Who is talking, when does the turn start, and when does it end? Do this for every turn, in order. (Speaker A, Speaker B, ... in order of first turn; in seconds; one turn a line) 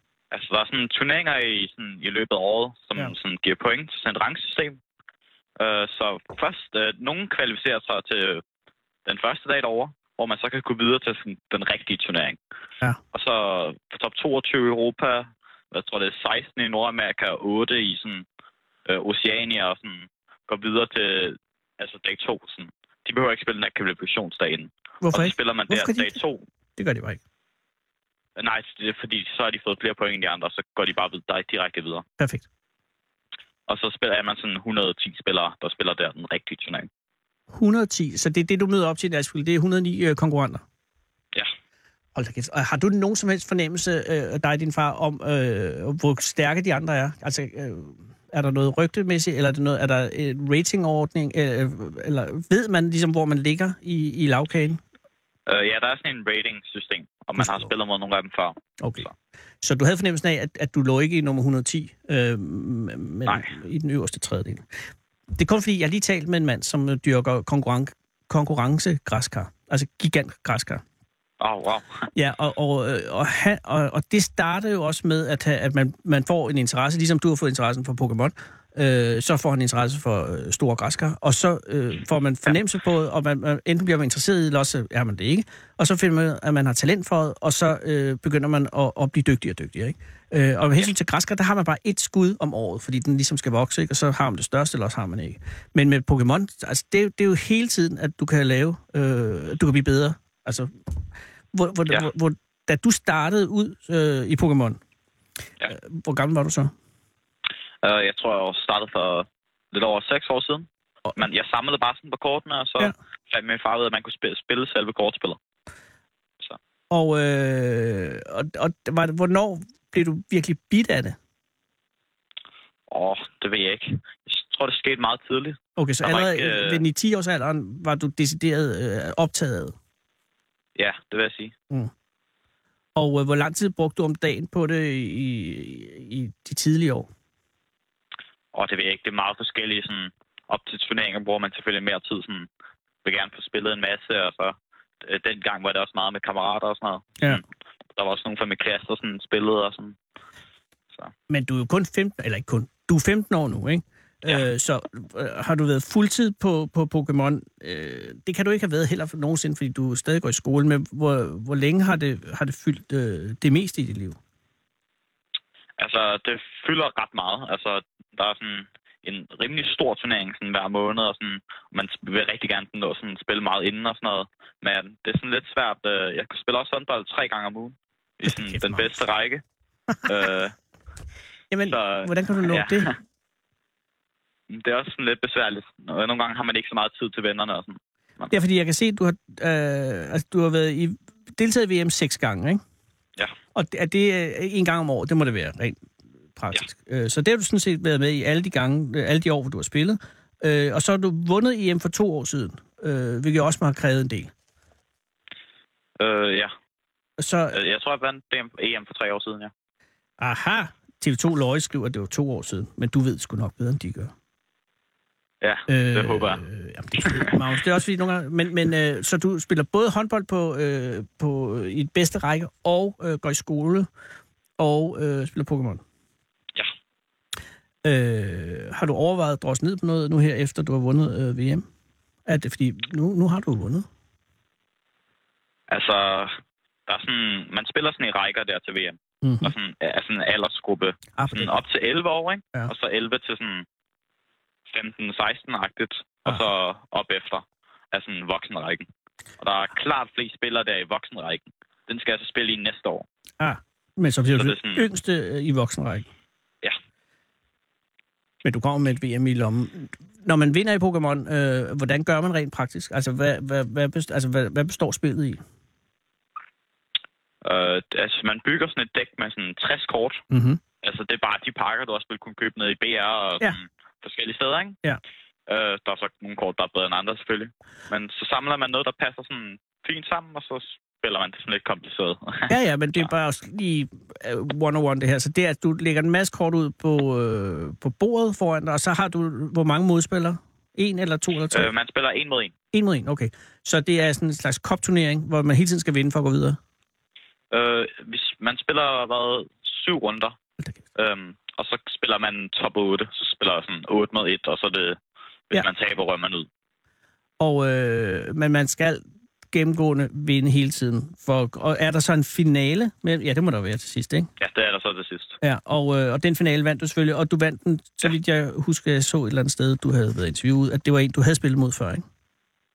Speaker A: 0.3-4.8
Speaker A: 5.6-8.4
Speaker A: 9.1-12.4
Speaker A: 13.1-18.2
Speaker A: 18.9-26.4
Speaker B: 25.0-26.2
Speaker B: 26.8-27.2
Speaker A: 28.4-32.0
Speaker B: 32.2-32.5
Speaker A: 33.7-36.9
Speaker B: 37.5-40.6
Speaker B: 42.1-54.8
Speaker A: 55.5-59.1
Speaker B: 57.4-57.7
Speaker B: 58.8-59.0
Speaker B: 59.6-64.7
Speaker B: 65.3-70.8
Speaker A: 71.4-71.8
Speaker B: 72.1-100.7
Speaker B: 101.5-104.8
Speaker B: 105.7-106.7
Speaker A: 107.8-115.4
Speaker B: 116.9-121.2
Speaker A: 122.9-126.8
Speaker B: 125.8-129.7
Speaker A: 130.8-131.5
Speaker B: 132.9-137.1
Speaker A: 138.5-142.5
Speaker A: 143.0-147.4
Speaker A: 147.9-150.0
Speaker B: 151.3-164.2
Speaker A: 165.8-179.4
Speaker B: 178.2-178.9
Speaker A: 180.1-180.5
Speaker B: 181.5-182.9
Speaker A: 181.7-182.9
Speaker A: 184.5-188.3
Speaker B: 188.3-192.6
Speaker B: 193.5-195.8
Speaker B: 196.4-204.3
Speaker A: 206.0-206.5
Speaker B: 207.2-207.6
Speaker A: 207.5-209.5
Speaker B: 210.2-214.1
Speaker A: 215.4-216.4
Speaker B: 215.7-223.9
Speaker B: 224.6-225.8
Speaker B: 227.8-231.7
Speaker B: 232.2-233.8
Speaker A: 235.7-236.3
Speaker A: 236.9-243.7
Speaker B: 239.2-239.5
Speaker B: 241.2-241.6
Speaker A: 244.7-248.9
Speaker A: 249.4-253.1
Speaker B: 253.4-256.1
Speaker A: 254.4-254.8
Speaker B: 258.4-265.4
Speaker A: 267.4-270.2
Speaker B: 270.3-270.6
Speaker A: 270.8-274.8
Speaker A: 275.5-282.5
Speaker B: 282.5-291.7
Speaker A: 291.5-292.5
Speaker B: 292.7-296.6
Speaker A: 297.5-300.3
Speaker A: 300.9-305.0
Speaker A: 305.5-306.5
Speaker B: 307.4-314.3
Speaker A: 314.4-315.4
Speaker B: 315.4-322.0